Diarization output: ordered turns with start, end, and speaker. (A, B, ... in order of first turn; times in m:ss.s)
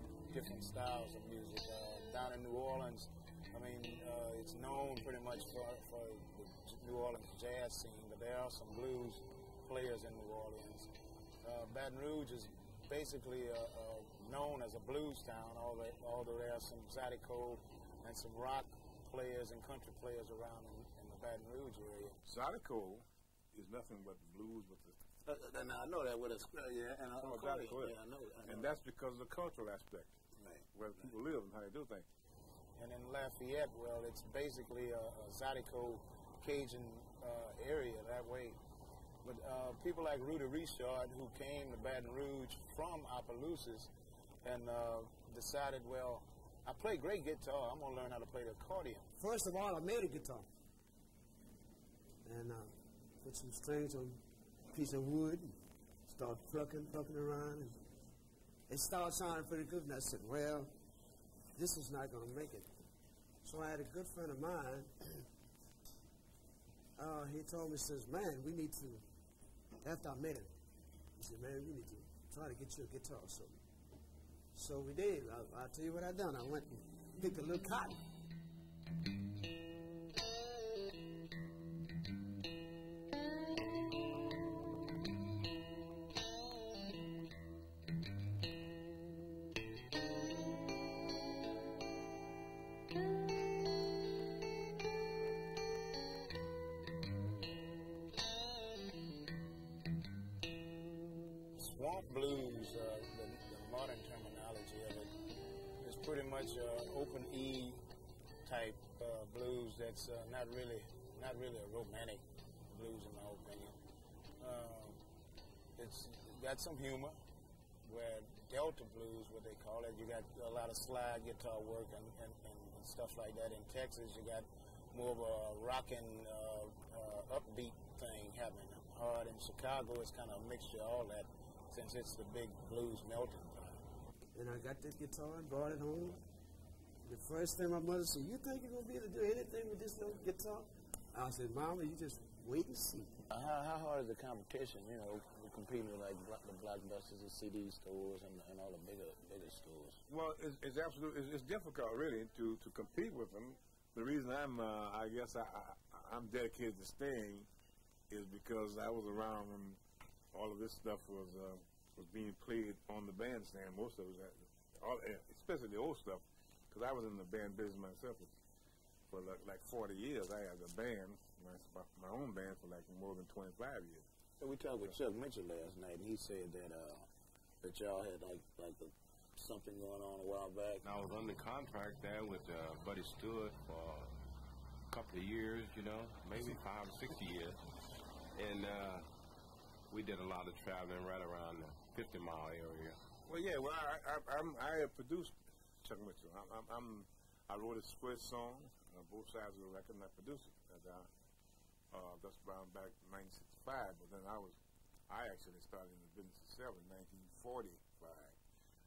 0:00.3-0:10.9 A
0:11.4-0:22.2 A
0:22.2-0:25.0 B
0:25.2-0:28.7 A
0:27.2-0:30.1 B
0:30.4-0:31.1 A
0:30.7-0:32.0 B
0:32.8-0:38.6 A
0:39.2-0:43.9 A
0:44.4-0:49.1 A
0:49.2-0:50.5 C
0:52.2-0:57.8 C
0:58.7-1:00.7 C
1:01.5-1:02.7 C
1:03.4-1:05.0 C
1:07.0-1:09.0 C
1:09.8-1:10.5 C
1:11.2-1:13.6 C
1:14.5-1:18.0 C
1:41.5-1:45.1 A
1:45.8-1:47.8 A
1:48.4-1:53.8 A
1:54.4-1:55.0 A
1:55.8-1:57.2 A
1:57.8-2:13.8 A
2:14.3-2:16.2 C
2:17.0-2:23.2 C
2:23.3-2:30.0 A
2:30.1-2:37.5 B
2:38.1-2:39.8 B
2:40.3-2:48.3 B
2:49.1-2:54.0 B
2:54.4-2:57.1 A
2:57.6-3:00.8 A
3:00.8-3:04.1 D
3:04.9-3:07.6 D
3:08.3-3:09.0 D
3:09.9-3:13.0 D
3:13.2-3:21.1 B
3:21.9-3:24.6 B
3:25.1-3:28.4 B